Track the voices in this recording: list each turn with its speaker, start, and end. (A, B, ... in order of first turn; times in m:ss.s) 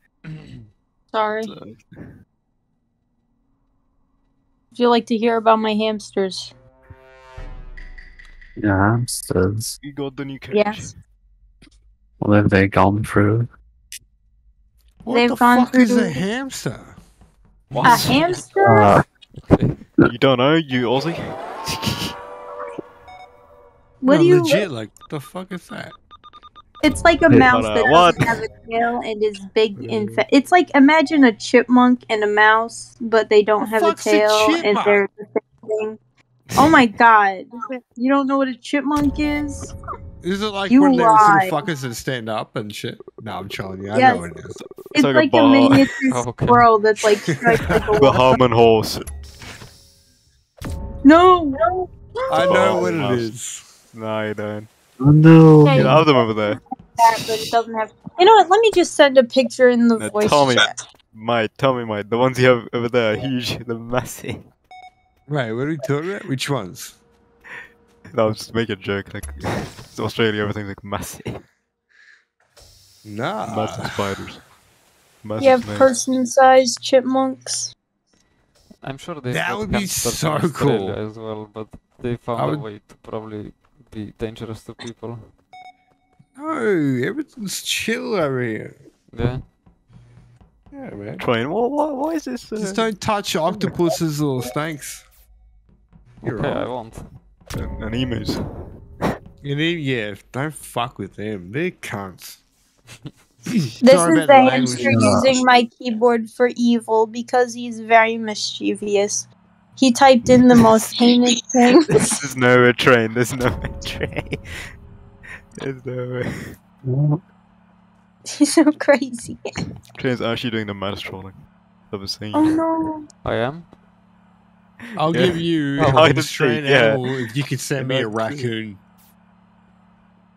0:00.3-0:00.6 A
0:01.1-0:01.5 B
0:01.4-0:02.1 C
0:04.7-0:06.5 B
0:08.6-0:09.8 D
0:09.8-0:10.9 C
0:10.5-0:10.9 B
0:12.2-0:13.5 D
0:15.0-0:16.9 E
0:15.1-0:16.2 B
0:17.7-0:18.2 C
0:17.7-0:18.4 A
0:17.8-0:19.0 D
0:17.8-0:18.9 B
0:19.3-0:19.8 A
0:20.0-0:22.1 C
0:24.0-0:24.7 B
0:24.1-0:25.9 E
0:26.8-0:36.0 B
0:27.3-0:27.6 D
0:27.4-0:28.4 C
0:29.8-0:30.2 C
0:33.6-0:35.0 E
0:36.5-0:36.8 C
0:36.6-0:39.7 B
0:40.2-0:44.6 E
0:40.7-0:41.6 B
0:43.9-0:44.2 B
0:44.9-0:45.9 C
0:44.9-0:48.4 B
0:46.1-0:46.7 A
0:47.3-0:47.7 E
0:48.0-0:49.0 C
0:51.0-0:51.6 B
0:52.3-0:53.7 E
0:52.4-0:53.3 C
0:53.9-0:54.7 C
0:55.0-0:56.0 D
0:55.6-1:00.7 B
0:55.7-0:56.6 C
1:00.0-1:04.4 C
1:05.3-1:07.0 E
1:08.1-1:11.4 C
1:13.0-1:13.9 E
1:13.4-1:14.4 C
1:15.2-1:15.9 C
1:15.4-1:17.7 B
1:18.8-1:25.3 A
1:19.3-1:21.0 E
1:22.3-1:22.7 E
1:26.4-1:28.7 E
1:29.1-1:29.4 A
1:30.7-1:31.2 E
1:31.2-1:32.9 C
1:32.6-1:35.0 E
1:36.2-1:37.1 A
1:36.2-1:36.7 E
1:37.5-1:39.1 C
1:39.4-1:42.4 E
1:43.5-1:45.2 E
1:43.8-1:49.3 B
1:44.7-1:45.4 D
1:49.8-1:51.8 B
1:51.9-1:54.7 C
1:55.6-1:56.6 C
1:56.8-1:57.2 D
1:58.3-1:59.4 B
1:59.9-2:01.3 C
2:01.9-2:02.6 C
2:02.3-2:03.0 B
2:03.2-2:03.7 A
2:05.0-2:08.8 E
2:05.1-2:07.2 C
2:05.8-2:06.0 A
2:07.8-2:08.5 C